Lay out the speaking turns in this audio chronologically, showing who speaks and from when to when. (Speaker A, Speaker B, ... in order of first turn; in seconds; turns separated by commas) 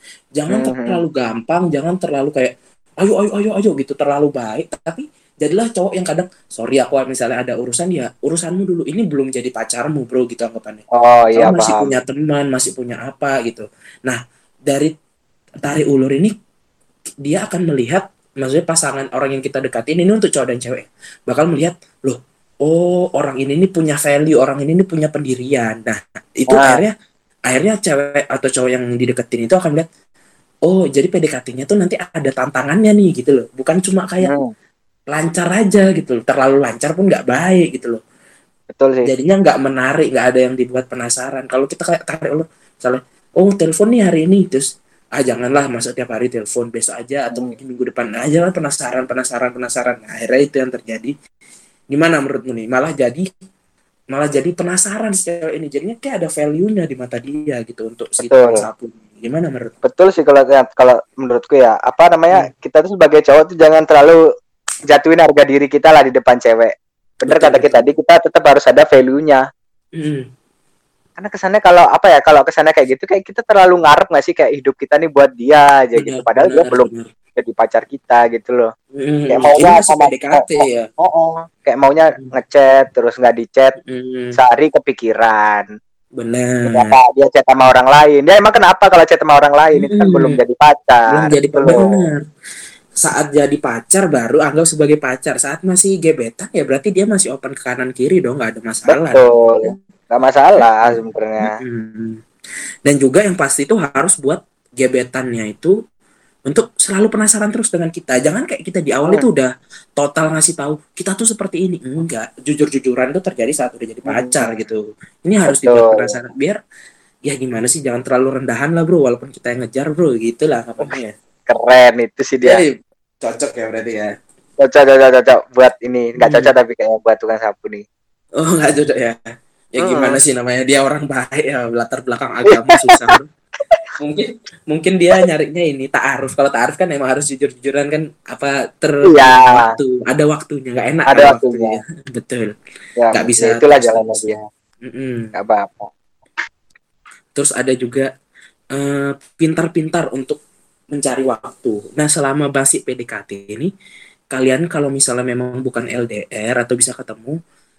Speaker A: 0.4-10.8, Speaker B: 0.5-1.0, Speaker B: 11.0-11.9, Speaker A: 11.4-14.9, Speaker A: 15.7-16.3, Speaker A: 17.2-26.9, Speaker B: 26.5-26.8, Speaker A: 27.5-29.9, Speaker A: 30.6-34.3, Speaker B: 34.2-34.5, Speaker A: 35.1-38.0, Speaker B: 38.7-39.1, Speaker A: 39.0-51.1, Speaker B: 47.3-47.6, Speaker A: 51.9-53.2, Speaker A: 54.1-59.7, Speaker B: 58.2-58.6, Speaker B: 59.8-64.2, Speaker B: 64.9-66.7, Speaker A: 67.2-67.8, Speaker B: 67.3-69.4, Speaker A: 70.0-70.3, Speaker B: 71.2-78.7, Speaker A: 76.0-77.1, Speaker A: 78.9-80.9, Speaker B: 79.3-83.7, Speaker A: 83.8-84.4, Speaker B: 84.4-85.7, Speaker A: 86.2-86.9, Speaker B: 86.7-92.0, Speaker A: 89.8-90.4, Speaker A: 91.1-92.2, Speaker A: 93.0-99.8, Speaker B: 98.9-101.5, Speaker A: 100.6-102.2, Speaker A: 102.9-105.7, Speaker A: 106.5-116.6, Speaker B: 114.1-114.5, Speaker B: 115.5-116.2, Speaker A: 117.3-121.1, Speaker B: 121.5-122.6, Speaker A: 122.4-124.1, Speaker B: 124.6-127.8, Speaker A: 126.2-126.5, Speaker A: 128.4-129.2, Speaker A: 129.7-133.3, Speaker B: 129.8-130.2, Speaker B: 132.5-133.0, Speaker A: 134.0-142.5, Speaker B: 139.1-139.7, Speaker B: 141.1-141.8, Speaker B: 143.0-144.4, Speaker A: 143.1-145.3, Speaker B: 145.4-145.9, Speaker A: 147.3-148.1, Speaker A: 148.7-150.4, Speaker A: 150.9-153.7, Speaker A: 154.3-157.4